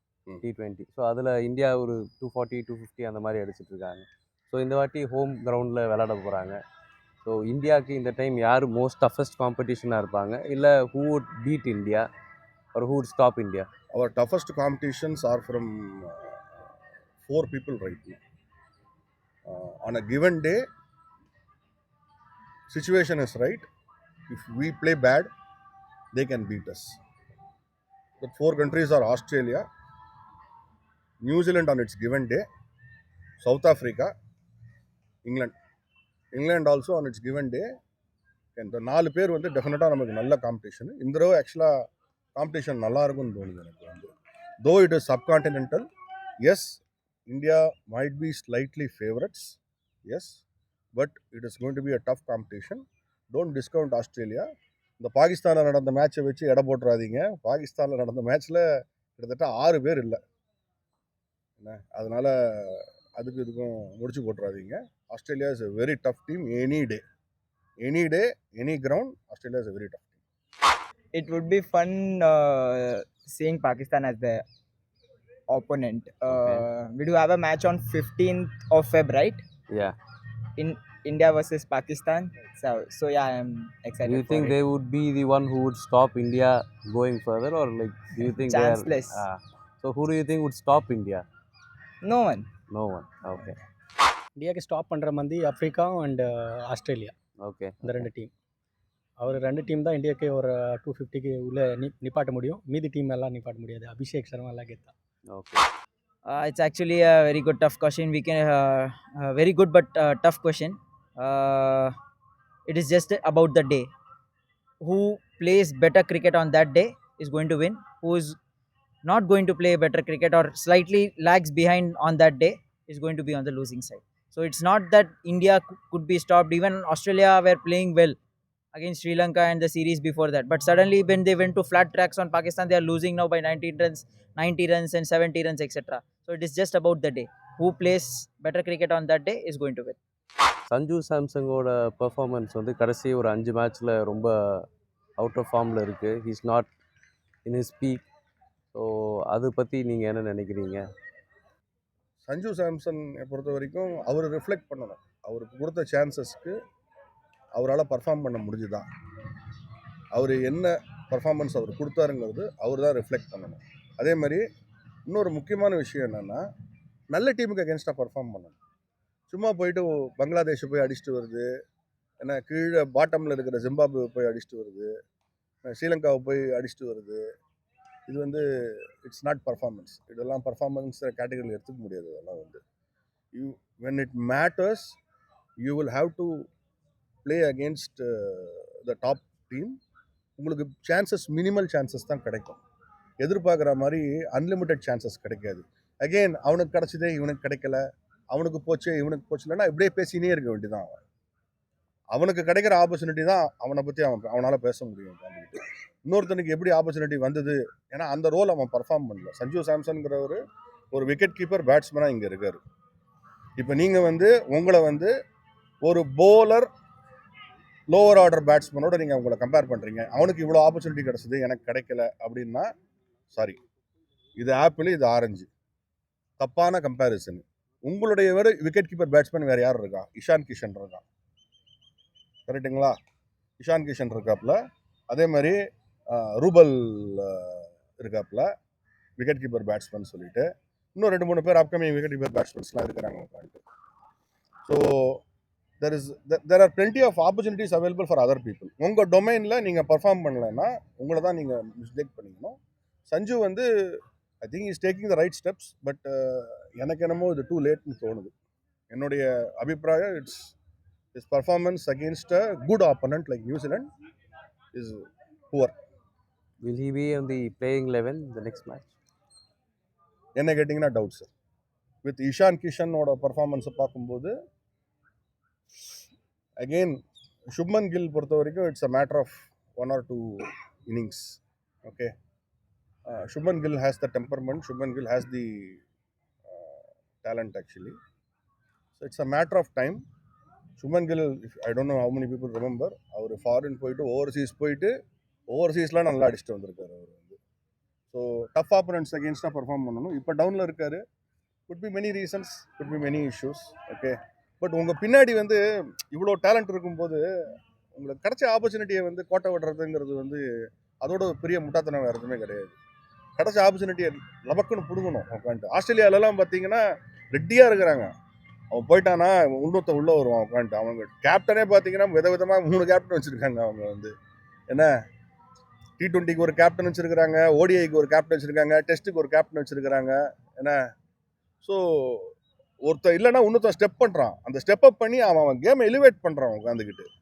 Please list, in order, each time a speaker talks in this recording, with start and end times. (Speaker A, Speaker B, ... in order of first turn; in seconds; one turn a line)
Speaker A: 0.4-6.6
Speaker A: 7.2-12.1
Speaker A: 12.7-13.7
Speaker B: 13.9-16.4
Speaker B: 17.2-18.2
Speaker B: 19.4-20.6
Speaker B: 22.7-23.6
Speaker B: 24.3-25.3
Speaker B: 26.1-27.0
Speaker B: 28.2-29.6
Speaker B: 31.2-32.4
Speaker B: 33.4-34.1
Speaker B: 35.2-35.5
Speaker B: 36.3-37.6
Speaker B: 38.5-41.7
Speaker B: 42.3-44.1
Speaker B: 44.6-45.9
Speaker B: 46.4-50.4
Speaker B: 50.9-54.5
Speaker B: 55.0-60.2
Speaker B: 61.6-67.0
Speaker B: 67.8-70.1
Speaker C: 71.1-74.4
Speaker C: 75.5-79.4
Speaker A: 76.3-76.7
Speaker A: 79.7-79.9
Speaker C: 80.6-84.6
Speaker A: 84.0-91.2
Speaker C: 88.3-89.2
Speaker C: 92.0-92.5
Speaker A: 92.7-93.6
Speaker D: 94.4-97.1
Speaker A: 97.4-98.1
Speaker D: 97.8-98.3
Speaker D: 99.2-104.9
Speaker A: 105.3-105.6
Speaker E: 106.3-111.9
Speaker E: 112.7-113.9
Speaker E: 114.8-118.4
Speaker E: 119.0-128.2
Speaker E: 128.7-140.0
Speaker A: 140.7-144.7
Speaker A: 145.2-146.7
Speaker A: 147.4-148.1
Speaker A: 148.7-150.8
Speaker B: 152.2-156.6
Speaker B: 157.6-158.8
Speaker B: 160.1-164.4
Speaker B: 165.1-166.4
Speaker B: 167.1-168.6
Speaker B: 169.3-171.5
Speaker B: 172.2-174.9
Speaker B: 175.6-177.2
Speaker B: 178.1-182.6
Speaker B: 183.3-184.9
Speaker B: 185.6-186.5
Speaker B: 187.2-189.8
Speaker B: 190.4-192.6
Speaker B: 193.2-197.8
Speaker B: 198.3-201.0
Speaker B: 202.1-210.4
Speaker B: 210.9-212.6
Speaker B: 213.6-215.1
Speaker B: 215.8-216.7
Speaker B: 217.9-222.7
Speaker B: 223.3-223.6
Speaker B: 224.4-225.5
Speaker B: 226.4-231.0
Speaker B: 232.5-232.9
Speaker B: 233.6-234.6
Speaker B: 235.1-235.6
Speaker B: 236.1-238.5
Speaker B: 239.2-243.6
Speaker B: 244.6-245.2
Speaker B: 245.8-252.6
Speaker B: 253.1-258.3
Speaker B: 258.9-260.5
Speaker B: 261.1-263.9
Speaker B: 264.7-265.7
Speaker A: 266.6-268.9
Speaker B: 270.4-271.3
Speaker B: 272.0-274.3
Speaker B: 276.6-277.0
Speaker B: 277.5-282.1
Speaker B: 283.1-285.8
Speaker B: 286.5-287.9
Speaker B: 289.0-290.0
Speaker B: 290.8-294.9
Speaker B: 295.5-297.4
Speaker B: 298.1-301.0
Speaker B: 301.7-307.2
Speaker B: 307.9-310.4
Speaker B: 311.0-312.7
Speaker B: 313.4-318.1
Speaker B: 318.7-324.1
Speaker B: 326.0-330.8
Speaker B: 331.6-337.1